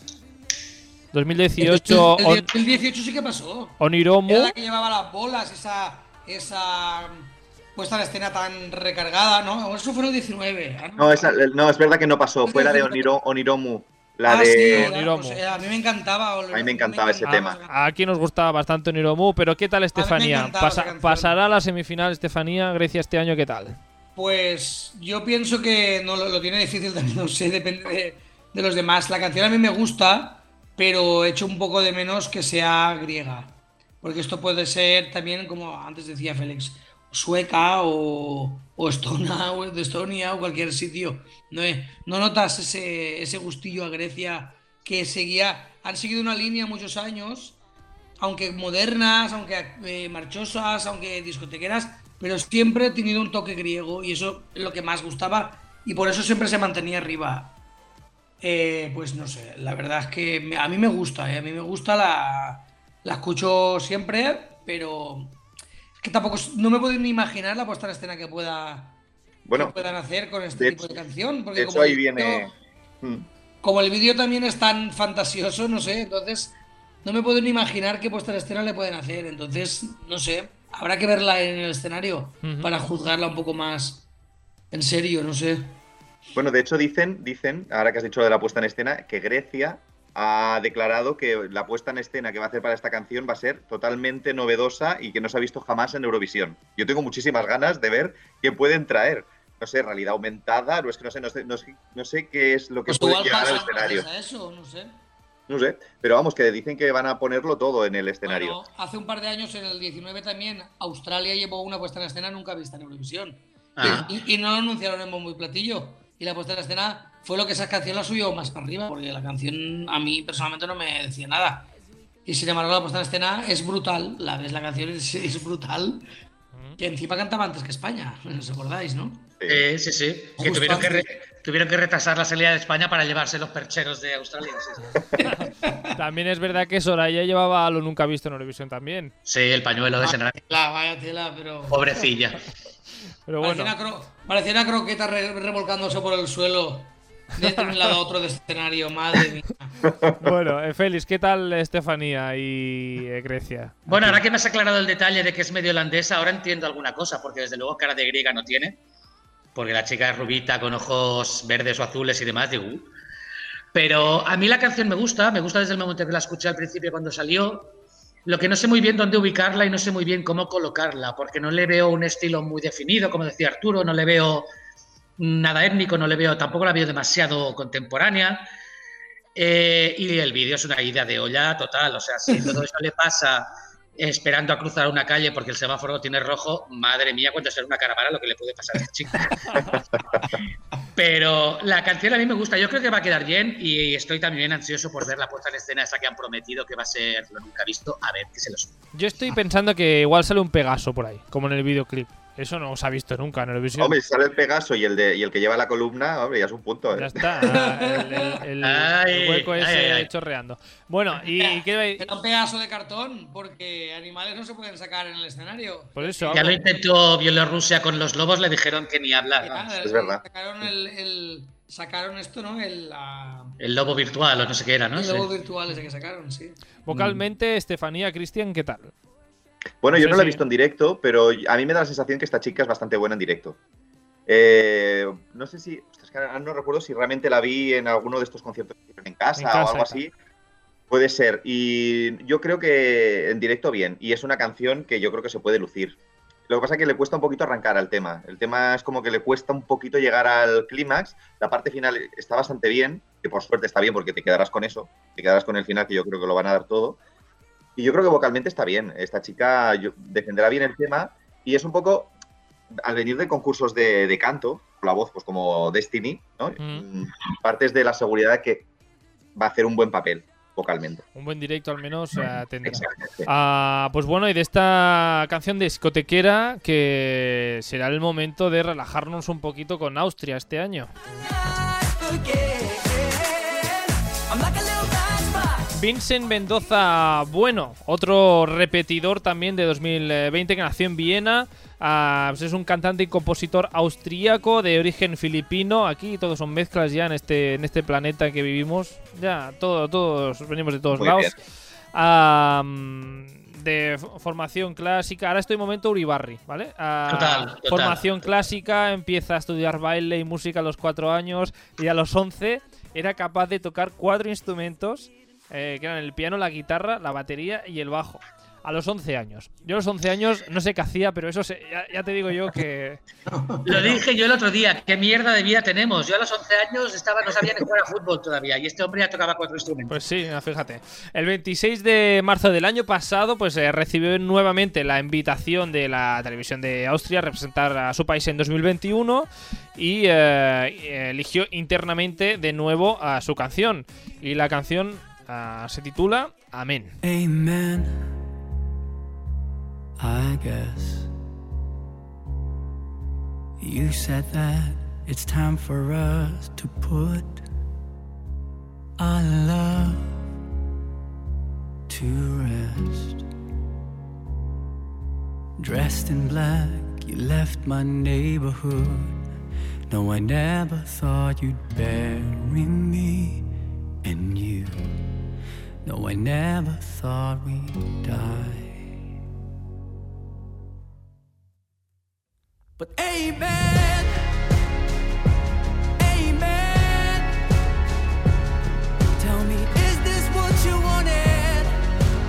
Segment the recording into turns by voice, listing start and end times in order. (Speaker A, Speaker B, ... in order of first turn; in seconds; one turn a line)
Speaker A: 1.1-2.5
Speaker B: 1.6-11.3
Speaker A: 3.8-4.6
Speaker C: 11.0-14.9
Speaker B: 12.4-13.1
Speaker B: 14.3-17.8
Speaker A: 14.7-15.4
Speaker C: 16.5-17.6
Speaker A: 17.2-23.8
Speaker B: 19.9-21.3
Speaker B: 24.2-47.6
Speaker B: 48.2-57.6
Speaker B: 58.4-65.4
Speaker B: 66.0-69.0
Speaker C: 69.5-69.8
Speaker B: 69.5-72.5
Speaker C: 70.6-71.0
Speaker C: 71.5-73.3
Speaker B: 73.6-84.1
Speaker A: 82.4-82.7
Speaker B: 84.7-85.8
Speaker C: 86.3-104.1
Speaker B: 102.9-105.0
Speaker C: 105.5-108.6
Speaker B: 108.3-121.7
Speaker D: 113.8-114.2
Speaker B: 122.3-126.1
Speaker B: 126.8-129.3
Speaker D: 129.5-135.2
Speaker B: 130.4-131.1
Speaker B: 135.2-135.9
Speaker A: 135.3-139.1
Speaker D: 139.3-140.4
Speaker B: 140.0-142.0
Speaker D: 141.7-142.4
Speaker A: 143.3-143.8
Speaker B: 143.4-149.8
Speaker C: 150.0-150.3
Speaker A: 150.2-154.2
Speaker D: 153.9-158.8
Speaker D: 159.6-162.9
Speaker D: 163.7-174.5
Speaker D: 175.2-178.5
Speaker D: 179.3-189.8
Speaker D: 190.9-198.8
Speaker A: 198.9-204.0
Speaker C: 203.8-207.2
Speaker A: 206.9-212.1
Speaker B: 207.5-208.4
Speaker D: 208.6-210.1
Speaker B: 211.3-216.6
Speaker A: 215.9-216.6
Speaker D: 216.3-219.6
Speaker B: 219.4-223.6
Speaker C: 219.8-220.2
Speaker D: 223.6-225.3
Speaker B: 225.0-226.6
Speaker A: 226.8-228.9
Speaker D: 226.9-227.2
Speaker C: 229.8-233.6
Speaker A: 229.9-230.4
Speaker C: 234.3-240.1
Speaker A: 239.4-240.1
Speaker C: 240.9-257.0
Speaker C: 257.8-262.1
Speaker C: 262.7-268.7
Speaker C: 269.4-271.0
Speaker A: 271.1-280.9
Speaker C: 272.6-273.3
Speaker E: 281.4-283.7
Speaker E: 284.3-285.6
Speaker A: 285.7-301.4
Speaker C: 301.0-301.3
Speaker A: 301.9-323.0
Speaker D: 307.1-308.3
Speaker B: 323.3-324.0
Speaker D: 323.6-330.0
Speaker A: 329.9-347.0
Speaker E: 347.0-348.1
Speaker E: 350.0-351.1
Speaker E: 353.6-357.5
Speaker E: 359.0-360.2
Speaker E: 361.9-363.2
Speaker E: 365.6-369.3
Speaker E: 369.9-373.5
Speaker E: 374.0-374.9
Speaker E: 375.8-378.9
Speaker E: 382.8-384.1
Speaker E: 386.0-387.4
Speaker E: 389.2-391.8